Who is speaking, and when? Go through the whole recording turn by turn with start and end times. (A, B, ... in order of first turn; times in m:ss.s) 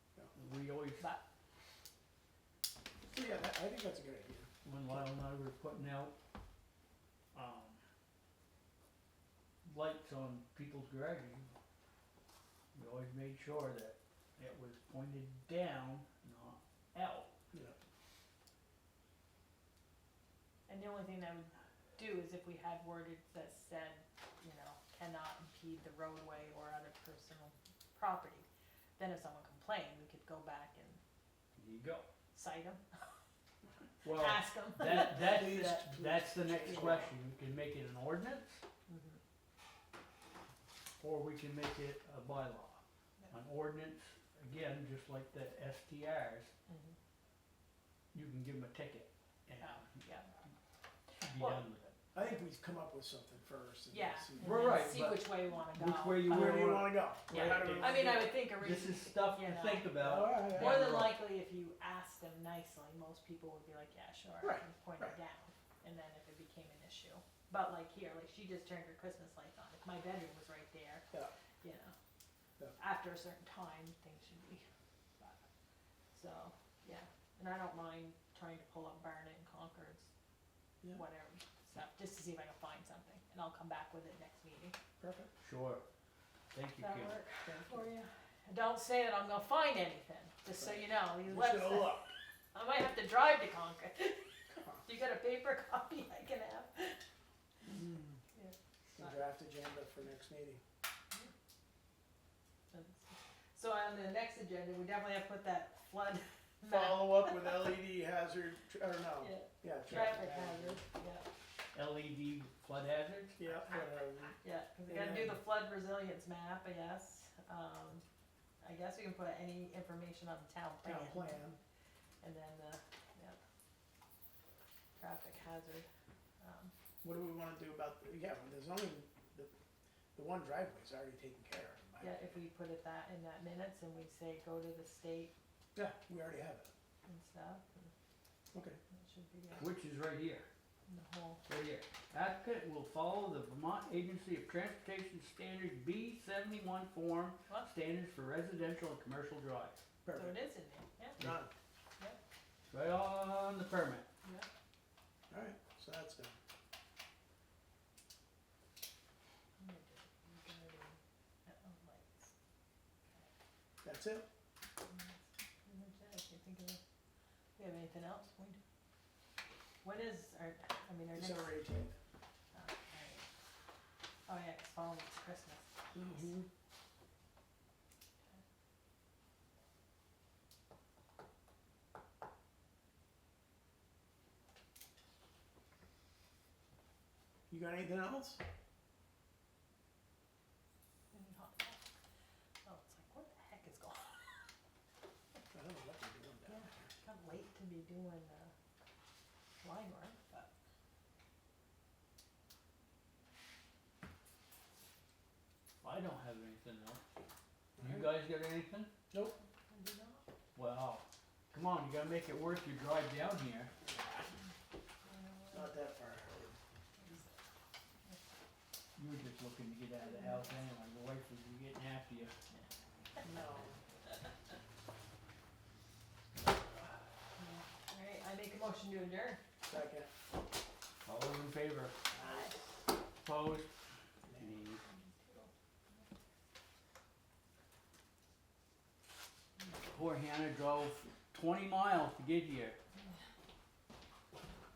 0:00.4-0:01.0 A
0:03.0-0:04.5 B
0:04.6-0:06.1 A
0:07.3-0:07.8 A
0:09.6-0:11.5 A
0:12.8-0:17.3 A
0:17.5-0:17.8 B
0:20.7-0:28.5 C
0:29.0-0:31.0 C
0:31.6-0:32.1 A
0:32.3-0:33.1 C
0:34.0-0:35.9 C
0:34.0-0:38.6 A
0:34.9-0:37.1 B
0:36.6-0:37.1 C
0:38.9-0:39.2 C
0:41.0-0:46.5 A
0:46.7-0:47.0 C
0:48.1-0:50.1 A
0:49.6-0:50.3 C
0:51.2-0:52.0 A
0:51.3-0:51.6 C
0:52.1-0:54.8 B
0:53.9-1:11.1 C
0:54.4-1:01.2 A
0:56.3-0:58.4 B
1:00.0-1:01.1 B
1:04.4-1:05.2 B
1:11.6-1:12.0 C
1:12.8-1:14.6 C
1:15.2-1:15.4 C
1:16.1-1:20.1 C
1:20.9-1:24.8 C
1:25.0-1:25.3 B
1:25.4-1:25.8 A
1:26.5-1:27.2 A
1:26.8-1:37.0 C
1:27.5-1:27.9 B
1:30.6-1:32.1 B
1:34.5-1:34.8 B
1:37.6-1:38.2 B
1:38.3-1:39.2 C
1:39.0-1:40.6 B
1:42.7-1:47.7 C
1:46.6-1:50.8 B
1:49.2-1:51.3 C
1:51.7-1:53.4 A
1:53.4-1:54.4 B
1:54.4-1:58.0 C
1:54.9-1:55.4 B
1:58.6-2:01.4 C
2:00.8-2:01.6 B
2:02.2-2:03.4 C
2:05.0-2:05.9 C
2:06.4-2:06.7 C
2:07.0-2:09.5 B
2:10.2-2:12.4 B
2:12.0-2:15.3 C
2:15.8-2:16.7 B
2:17.0-2:17.9 C
2:18.5-2:18.8 B
2:18.9-2:19.7 C
2:19.5-2:20.5 A
2:20.9-2:21.4 C
2:21.5-2:29.8 A
2:30.0-2:30.4 B
2:30.1-2:31.2 C
2:31.2-2:31.5 B
2:32.7-2:34.1 A
2:35.3-2:36.4 B
2:39.6-2:42.3 C
2:43.8-2:44.3 B
2:44.8-2:46.8 C
2:47.6-2:48.6 C
2:49.8-2:51.6 C
2:51.2-2:52.0 B
2:52.5-2:53.3 C
2:54.3-2:56.3 C
2:55.9-2:56.5 B
3:07.5-3:08.4 B
3:11.1-3:11.8 C
3:12.6-3:14.5 C
3:15.5-3:16.9 B
3:16.5-3:18.5 C
3:19.6-3:20.5 C
3:25.8-3:27.0 A
3:27.8-3:28.1 B
3:27.8-3:28.9 A
3:29.7-3:30.3 C
3:30.6-3:33.7 A
3:33.8-3:34.3 B
3:35.0-3:35.7 C
3:35.5-3:36.6 B
3:37.0-3:37.3 C
3:39.0-3:42.3 A
3:40.1-3:40.5 C
3:43.2-3:43.8 B
3:47.4-3:49.4 C
3:49.7-3:50.1 B
3:51.0-3:52.0 A
3:52.1-3:52.6 C
3:52.2-3:52.7 B
3:53.2-3:53.7 A
3:54.4-3:54.8 A
3:54.8-3:56.1 C
3:59.8-4:02.8 A